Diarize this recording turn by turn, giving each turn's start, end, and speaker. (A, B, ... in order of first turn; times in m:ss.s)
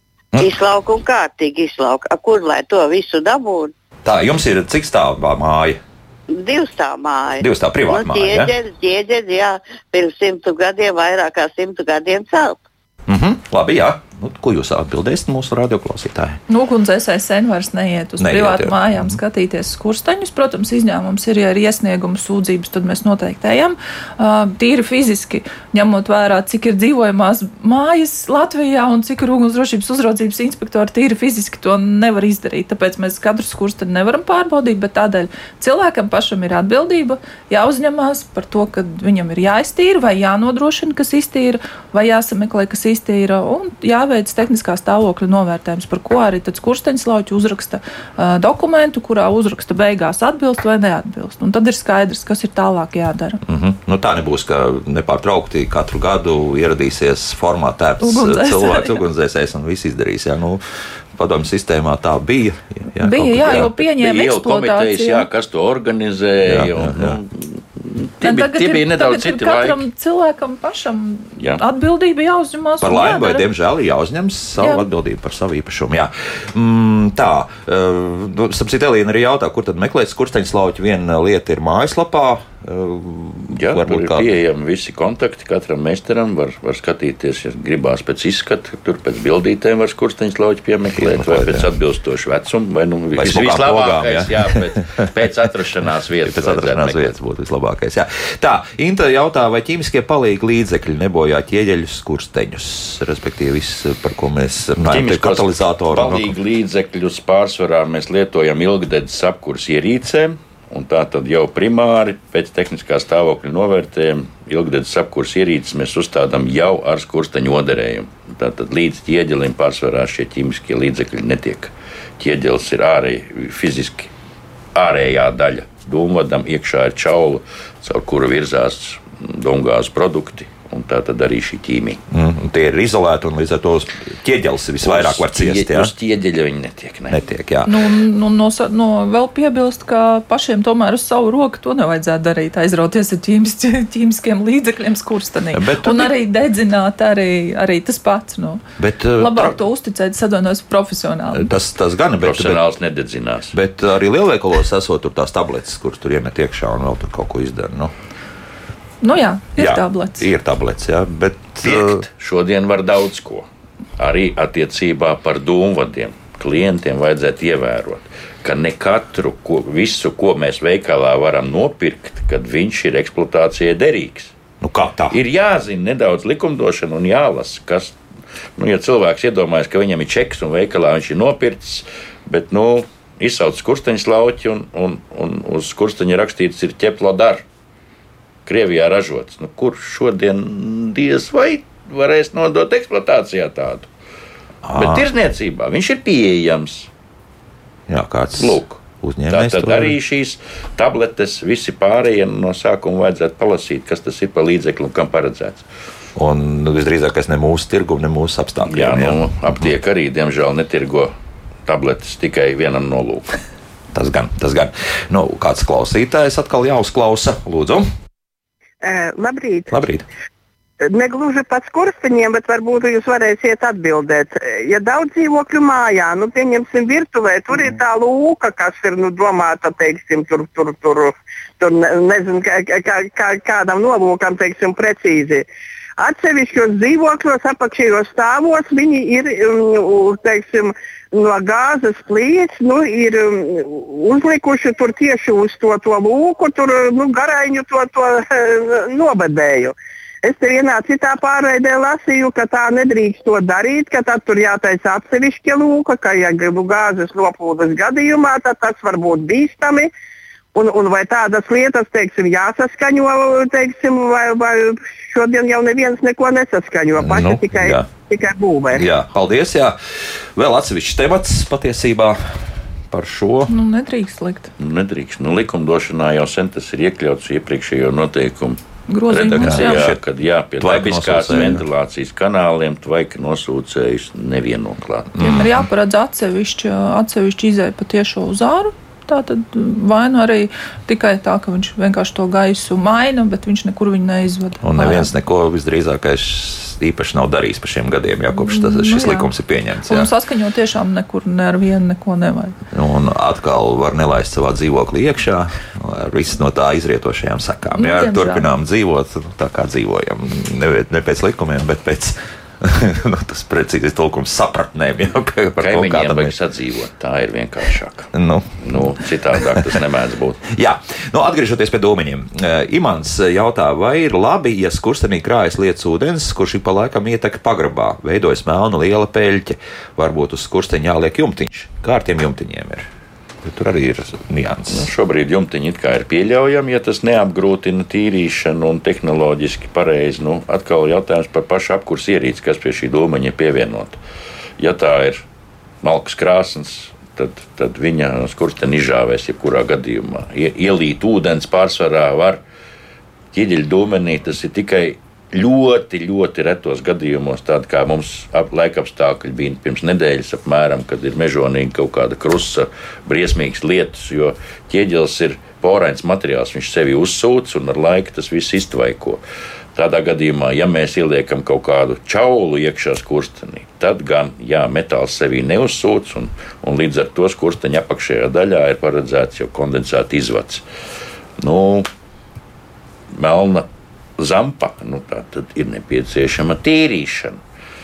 0:00.4-0:03.7 A
0:04.0-0:05.8 B
0:06.3-0:12.6 A
0:07.4-0:08.5 B
0:13.1-0:16.4 B
0:16.5-0:53.4 C
0:18.2-0:19.2 B
0:53.4-1:00.6 B
0:58.0-0:59.0 C
1:01.1-1:03.7 B
1:03.0-1:05.2 C
1:03.4-1:09.8 D
1:06.4-1:07.2 B
1:08.2-1:13.4 C
1:11.4-1:11.6 D
1:12.8-1:24.3 B
1:14.6-1:14.8 C
1:23.6-1:37.1 D
1:31.0-1:31.7 B
1:33.1-1:35.2 B
1:36.2-1:46.3 B
1:44.9-2:04.1 D
2:04.7-2:12.0 D
2:12.1-2:15.9 B
2:14.8-2:17.2 D
2:17.1-2:17.7 B
2:17.6-2:28.6 C
2:25.5-2:26.1 B
2:28.8-2:29.6 B
2:29.2-2:31.5 C
2:31.3-2:32.6 B
2:32.2-2:33.6 D
2:33.5-2:37.9 B
2:39.0-2:40.3 C
2:39.6-2:42.0 B
2:41.6-2:43.4 D
2:44.0-2:54.3 D
2:54.6-2:55.2 B
2:55.1-2:57.9 D
2:58.6-3:07.4 D
3:08.4-3:13.9 D
3:14.6-3:15.1 B
3:14.8-3:16.9 D
3:17.9-3:19.9 B
3:18.4-3:25.6 D
3:26.2-3:29.7 B
3:28.7-3:31.1 D
3:31.6-3:33.4 D
3:33.9-3:37.9 B
3:38.8-3:39.7 E
3:39.7-3:40.0 B
3:40.9-3:55.5 E
3:56.0-4:19.9 E
4:20.5-4:28.8 E
4:27.0-4:27.8 B
4:28.7-4:33.5 B
4:33.5-4:34.5 C
4:34.6-4:45.2 D
4:38.9-4:39.9 C
4:39.4-4:40.0 B
4:40.6-4:41.6 B
4:45.1-4:45.6 B
4:45.2-4:55.1 C
4:54.6-5:00.1 B
4:58.3-4:59.3 C
4:59.8-5:02.6 C
5:02.7-5:16.3 B
5:07.7-5:08.5 C
5:15.6-5:18.1 D
5:18.1-5:19.8 B
5:18.6-5:20.4 D
5:20.5-5:32.9 B
5:33.4-5:34.9 B
5:34.7-5:44.0 D
5:44.6-5:45.2 D
5:45.8-5:52.4 D
5:53.3-6:09.2 D
6:09.7-6:20.6 D
6:21.4-6:21.9 D
6:23.1-6:23.6 D
6:24.2-6:27.4 D